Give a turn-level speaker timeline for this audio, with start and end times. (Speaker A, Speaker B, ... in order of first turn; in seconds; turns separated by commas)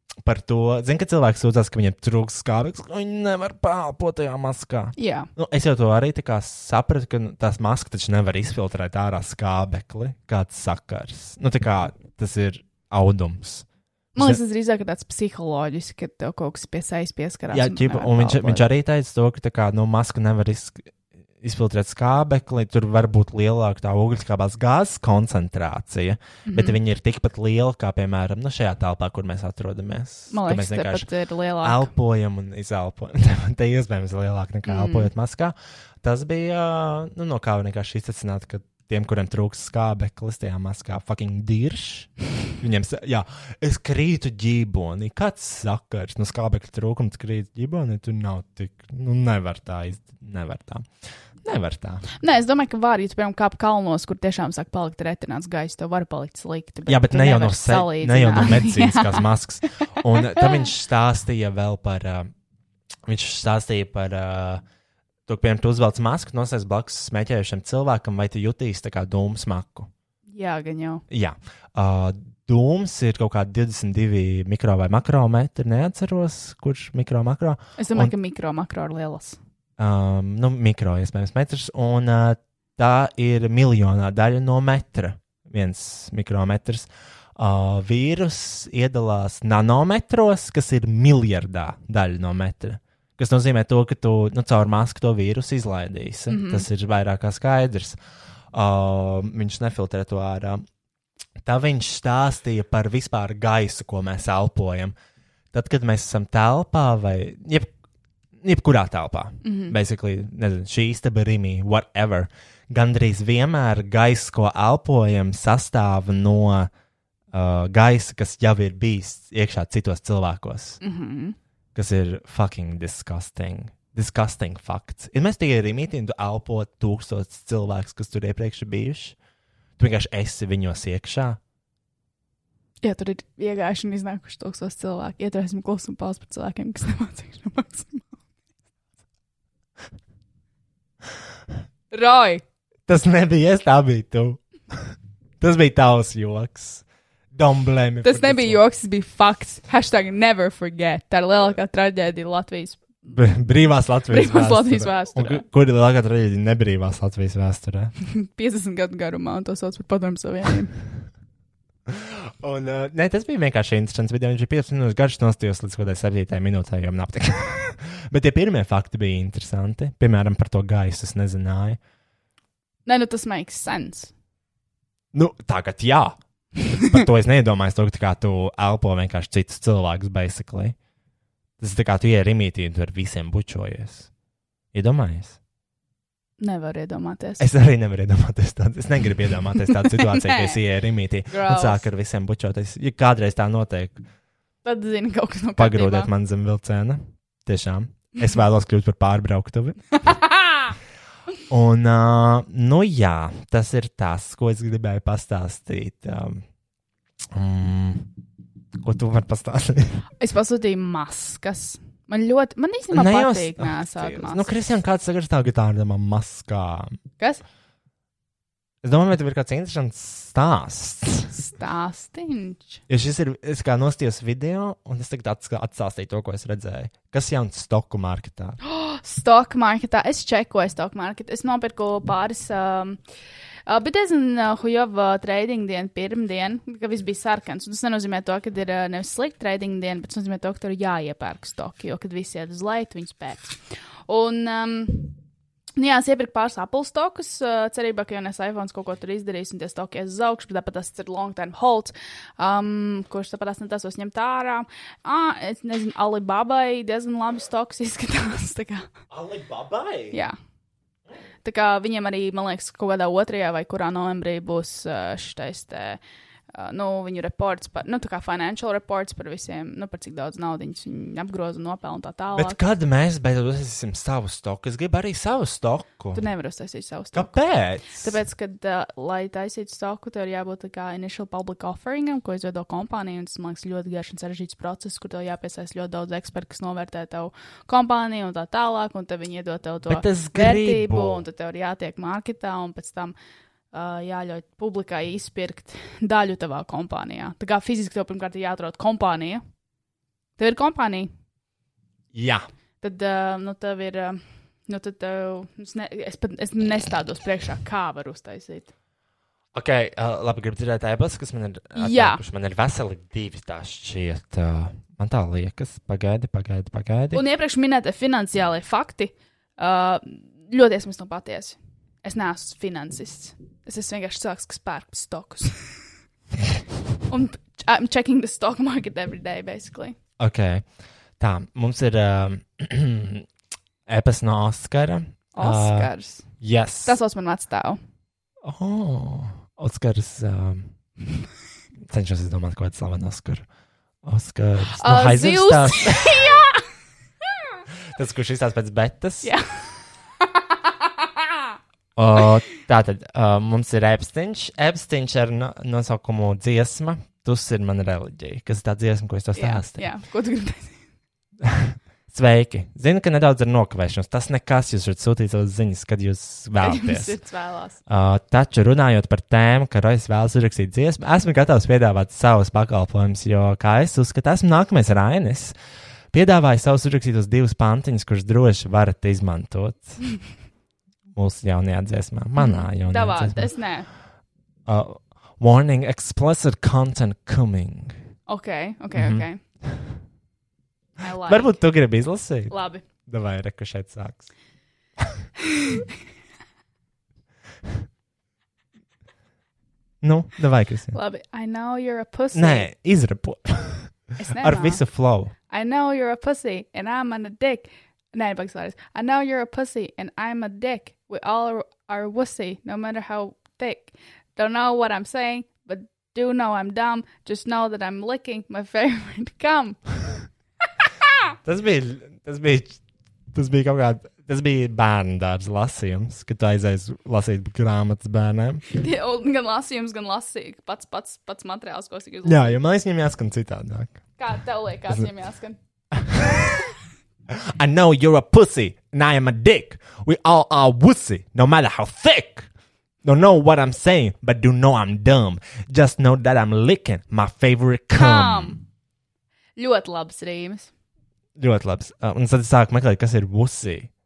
Speaker A: 0.2-14.4, Speaker B: 5.0-5.3, Speaker B: 14.1-18.7, Speaker A: 17.5-31.1, Speaker B: 26.5-26.8, Speaker B: 30.3-31.9, Speaker A: 31.6-50.9, Speaker B: 34.6-35.1, Speaker A: 51.4-52.0, Speaker B: 52.2-59.3, Speaker A: 56.9-62.3, Speaker B: 60.1-60.6, Speaker A: 63.0-64.6, Speaker A: 65.3-69.9, Speaker B: 70.3-71.0, Speaker A: 71.1-78.1, Speaker B: 77.8-79.4, Speaker A: 79.8-98.0, Speaker B: 96.3-96.7, Speaker A: 98.5-100.6, Speaker A: 101.4-104.9, Speaker A: 105.5-107.7, Speaker A: 108.4-116.7, Speaker B: 109.4-109.8, Speaker A: 117.3-120.8, Speaker B: 120.8-121.3, Speaker A: 121.7-129.2, Speaker A: 129.8-131.4, Speaker B: 132.8-138.1, Speaker B: 141.9-142.4, Speaker A: 142.9-144.4, Speaker A: 145.4-148.6, Speaker B: 148.0-153.1, Speaker A: 153.1-157.9, Speaker B: 154.1-155.4, Speaker B: 158.1-160.7, Speaker A: 161.9-171.8, Speaker B: 172.8-174.1, Speaker A: 175.1-176.2, Speaker A: 176.7-180.8, Speaker A: 181.6-184.1, Speaker A: 184.7-185.4, Speaker B: 186.4-187.5, Speaker A: 187.4-194.0, Speaker B: 189.9-190.6, Speaker B: 191.3-191.9, Speaker B: 194.6-196.1, Speaker A: 195.6-199.8, Speaker B: 200.0-200.7, Speaker A: 201.5-206.4, Speaker A: 207.3-208.1, Speaker A: 208.8-210.0, Speaker B: 210.2-214.4, Speaker A: 212.9-216.9, Speaker A: 218.8-221.3, Speaker B: 221.3-222.8, Speaker A: 222.9-228.6, Speaker B: 228.6-233.0, Speaker B: 233.7-245.1, Speaker B: 245.8-258.9, Speaker A: 259.1-260.2, Speaker B: 261.4-266.0, Speaker B: 266.5-272.6, Speaker A: 272.3-276.2, Speaker B: 276.1-277.3, Speaker A: 277.1-278.1, Speaker B: 278.0-293.1, Speaker A: 289.9-291.2, Speaker B: 293.7-299.4, Speaker B: 300.4-301.1, Speaker A: 302.1-302.4, Speaker B: 302.8-308.7, Speaker A: 309.5-317.2, Speaker B: 311.8-312.2, Speaker B: 317.1-325.6, Speaker B: 327.1-330.0, Speaker A: 330.2-330.6, Speaker A: 331.2-333.2, Speaker A: 333.9-337.0, Speaker B: 335.4-336.2, Speaker B: 336.8-337.8, Speaker A: 338.4-340.7, Speaker A: 341.9-343.4, Speaker A: 344.0-346.2, Speaker B: 344.7-346.6, Speaker A: 347.9-349.3, Speaker A: 351.9-359.9, Speaker B: 359.4-360.8, Speaker A: 361.4-367.2, Speaker B: 366.6-367.8, Speaker A: 367.9-375.6, Speaker A: 376.1-380.0, Speaker A: 381.1-383.5, Speaker B: 382.4-383.9, Speaker A: 384.7-387.9, Speaker B: 388.3-389.4, Speaker A: 388.9-389.2, Speaker B: 391.0-391.6, Speaker A: 391.2-392.5, Speaker B: 392.5-392.8, Speaker A: 393.1-394.3, Speaker B: 395.5-395.8, Speaker A: 400.0-400.9, Speaker B: 400.9-402.7, Speaker A: 402.3-405.3, Speaker B: 404.2-404.8, Speaker B: 405.5-419.8, Speaker A: 421.4-422.8, Speaker A: 423.3-428.6, Speaker B: 428.7-432.6, Speaker A: 432.2-434.0, Speaker B: 434.2-435.6, Speaker A: 435.9-436.6, Speaker A: 437.3-442.5, Speaker A: 443.0-448.6, Speaker B: 447.9-448.6, Speaker B: 449.6-450.7, Speaker A: 451.4-453.9